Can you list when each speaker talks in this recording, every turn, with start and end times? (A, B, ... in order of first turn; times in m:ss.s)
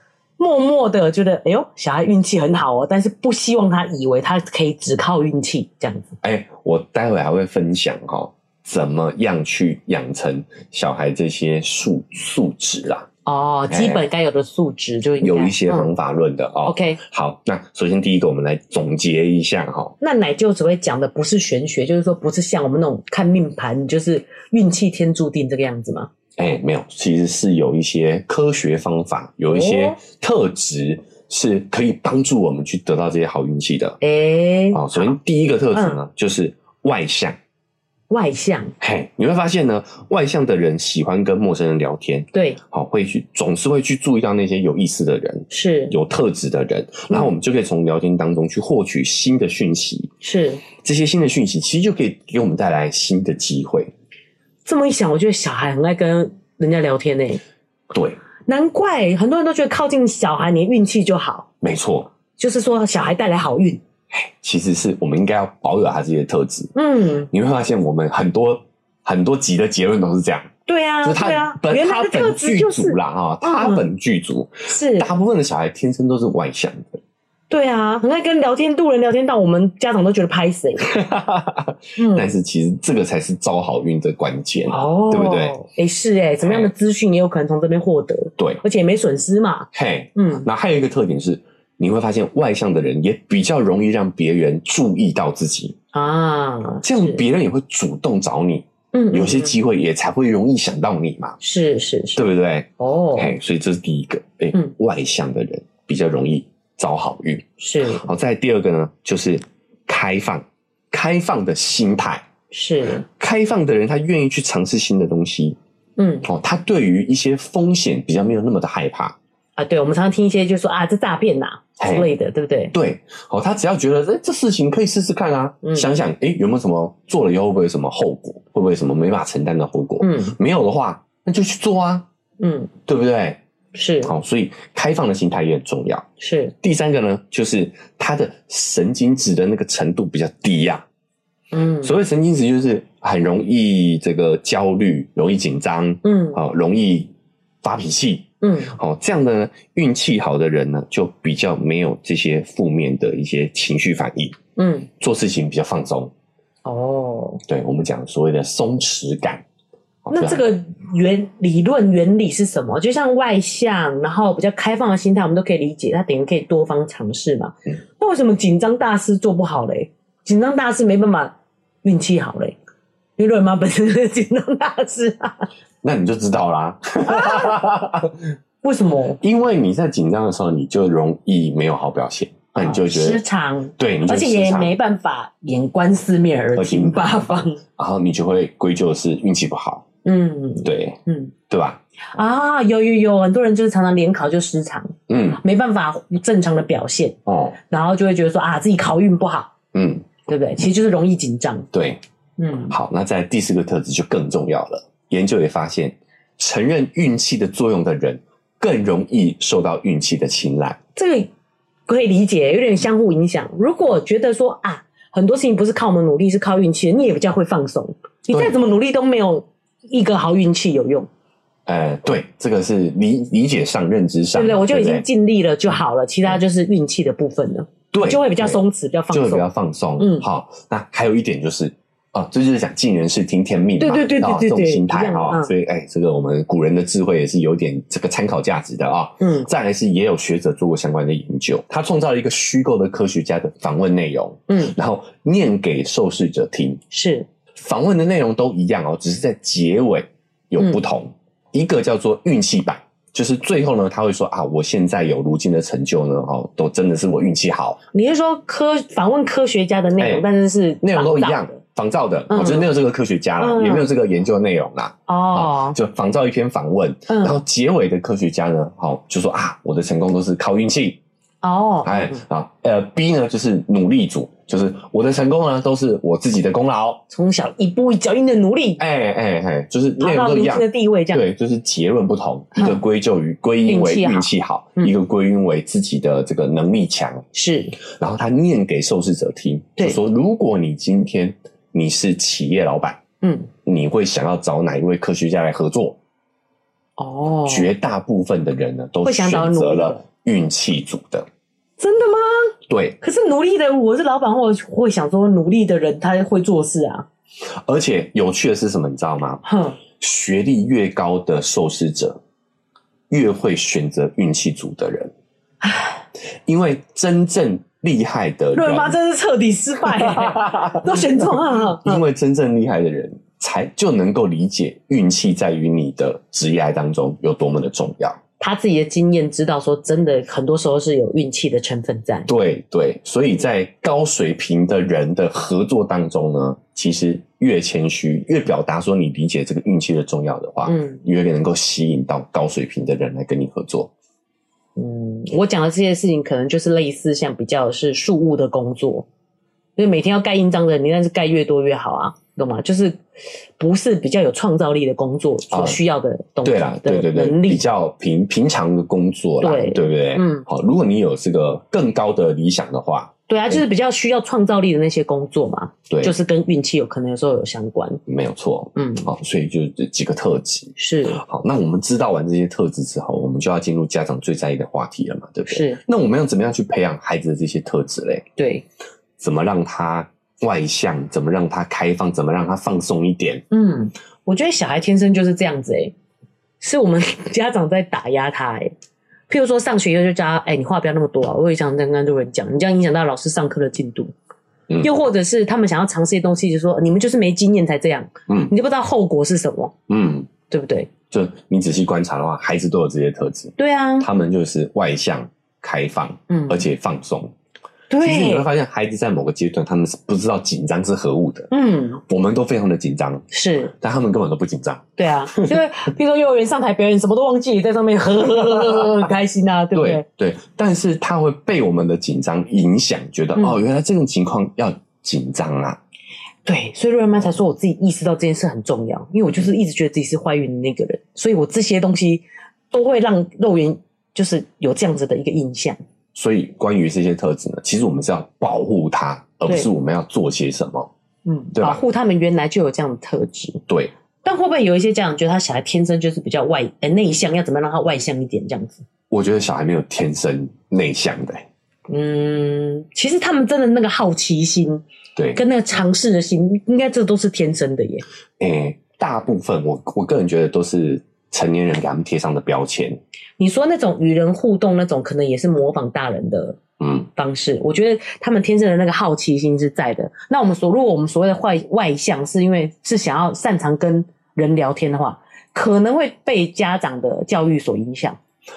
0:00.4-0:06.1 A
0:06.2-0:13.1 B
0:13.2-0:15.9 A
0:13.7-0:14.0 B
0:15.2-0:19.9 B
0:16.6-0:17.0 A
0:20.0-0:26.1 A
0:26.4-0:34.0 B
0:29.5-0:30.0 A
0:34.0-0:35.1 A
0:34.7-0:37.4 B
0:38.1-0:38.7 A
0:38.8-0:50.1 B
0:42.3-0:42.6 A
0:45.5-0:46.0 A
0:50.2-0:50.6 A
0:50.8-0:53.9 B
0:54.6-0:57.4 A
0:57.9-0:58.2 B
0:58.5-1:01.5 A
1:01.6-1:02.1 B
1:02.4-1:03.8 A
1:04.1-1:06.7 B
1:06.7-1:07.3 A
1:07.3-1:10.5 B
1:10.7-1:13.8 A
1:11.0-1:17.0 B
1:14.7-1:15.1 A
1:17.5-1:20.9 A
1:20.8-1:25.6 B
1:22.0-1:22.3 A
1:24.7-1:30.4 A
1:26.4-1:26.7 B
1:29.7-1:35.8 B
1:35.9-1:37.2 A
1:36.8-1:41.4 B
1:38.9-1:39.5 A
1:41.4-1:42.2 A
1:42.2-1:52.2 B
1:42.8-1:43.3 A
1:47.6-1:48.0 A
1:52.5-1:53.0 A
1:53.2-1:55.6 B
1:56.0-1:56.2 A
1:56.2-1:59.2 B
1:59.6-2:02.7 A
2:01.8-2:02.1 B
2:02.7-2:12.0 B
2:05.6-2:05.9 A
2:10.0-2:10.3 A
2:12.4-2:12.7 A
2:12.9-2:13.4 B
2:13.7-2:14.1 A
2:14.0-2:16.1 B
2:16.2-2:16.5 A
2:16.6-2:20.8 B
2:21.5-2:21.9 A
2:21.8-2:34.4 B
2:26.0-2:26.4 A
2:28.4-2:28.7 A
2:34.6-2:34.9 A
2:35.0-2:36.1 B
2:36.6-2:37.4 A
2:37.4-2:39.4 B
2:40.0-2:40.4 B
2:40.1-2:51.3 A
2:51.8-2:52.6 A
2:53.2-2:55.5 A
2:55.8-2:58.2 B
2:57.0-2:57.6 A
2:58.6-2:59.2 A
2:59.2-3:03.2 B
3:02.6-3:07.6 A
3:03.8-3:04.7 B
3:06.5-3:09.8 B
3:10.0-3:11.3 A
3:10.6-3:11.0 B
3:11.5-3:11.8 B
3:12.1-3:17.2 A
3:15.1-3:15.4 B
3:17.2-3:17.5 B
3:17.7-3:19.5 A
3:19.7-3:20.1 B
3:20.2-3:21.7 A
3:21.7-3:22.0 B
3:22.4-3:22.7 A
3:22.7-3:30.8 B
3:31.0-3:31.3 A
3:31.9-3:41.1 A
3:38.3-3:38.6 B
3:41.6-3:45.0 B
3:44.3-3:49.4 A
3:47.9-4:06.8 B
3:50.0-3:50.2 A
3:53.8-3:55.5 A
3:59.2-3:59.5 A
4:04.5-4:04.7 A
4:06.9-4:07.3 A
4:07.6-4:17.8 B
4:17.9-4:21.6 A
4:20.0-4:20.2 B
4:20.8-4:31.0 B
4:22.3-4:22.7 A
4:23.4-4:23.9 A
4:25.1-4:25.8 A
4:27.1-4:27.4 A
4:31.4-4:32.2 A
4:31.8-4:37.0 B
4:37.1-4:38.8 A
4:38.8-4:47.2 B
4:40.0-4:41.2 A
4:43.7-4:44.9 A
4:47.3-4:47.8 A
4:47.8-4:53.0 B
4:53.2-4:53.5 A
4:53.6-4:56.0 B
4:57.0-4:57.7 A
4:57.5-5:01.3 B
4:59.0-5:00.0 A
5:01.8-5:07.0 A
5:02.7-5:03.0 B
5:07.5-5:12.2 B
5:09.4-5:09.8 A
5:13.1-5:15.1 B
5:15.6-5:16.0 A
5:16.4-5:19.0 B
5:18.5-5:22.0 A
5:19.8-5:28.2 B
5:28.4-5:32.3 A
5:32.3-5:43.9 B
5:40.7-5:41.0 A
5:44.8-5:49.0 A
5:49.8-5:53.0 A
5:53.6-5:57.6 A
5:55.5-5:55.8 B
5:56.4-6:03.6 B
5:59.4-6:00.4 A
6:03.3-6:08.0 A
6:08.1-6:18.2 B
6:08.8-6:09.1 A
6:10.8-6:11.2 A
6:15.5-6:15.8 A
6:18.4-6:18.6 A
6:19.2-6:23.4 B
6:23.5-6:25.9 A
6:26.6-6:28.7 A
6:29.3-6:34.1 A
6:34.8-6:39.7 A
6:39.9-6:40.3 B
6:40.5-6:40.9 A
6:41.1-6:47.3 B
6:43.6-6:44.1 A
6:46.3-6:46.6 A
6:47.9-6:48.5 A
6:48.0-6:51.5 B
6:51.5-6:52.0 A
6:52.1-6:55.6 B
6:53.3-6:53.7 A
6:55.0-7:00.0 A
6:58.4-6:59.0 B
6:59.7-7:05.8 B
7:03.4-7:03.6 A
7:06.4-7:15.8 A
7:16.1-7:20.9 B
7:21.2-7:23.6 A
7:21.5-7:21.8 B
7:24.2-7:28.8 A
7:29.1-7:31.4 B
7:31.9-7:34.8 A
7:35.3-7:38.0 A
7:38.4-7:43.0 B
7:43.4-7:46.6 A
7:46.8-7:47.1 B
7:47.1-7:58.2 A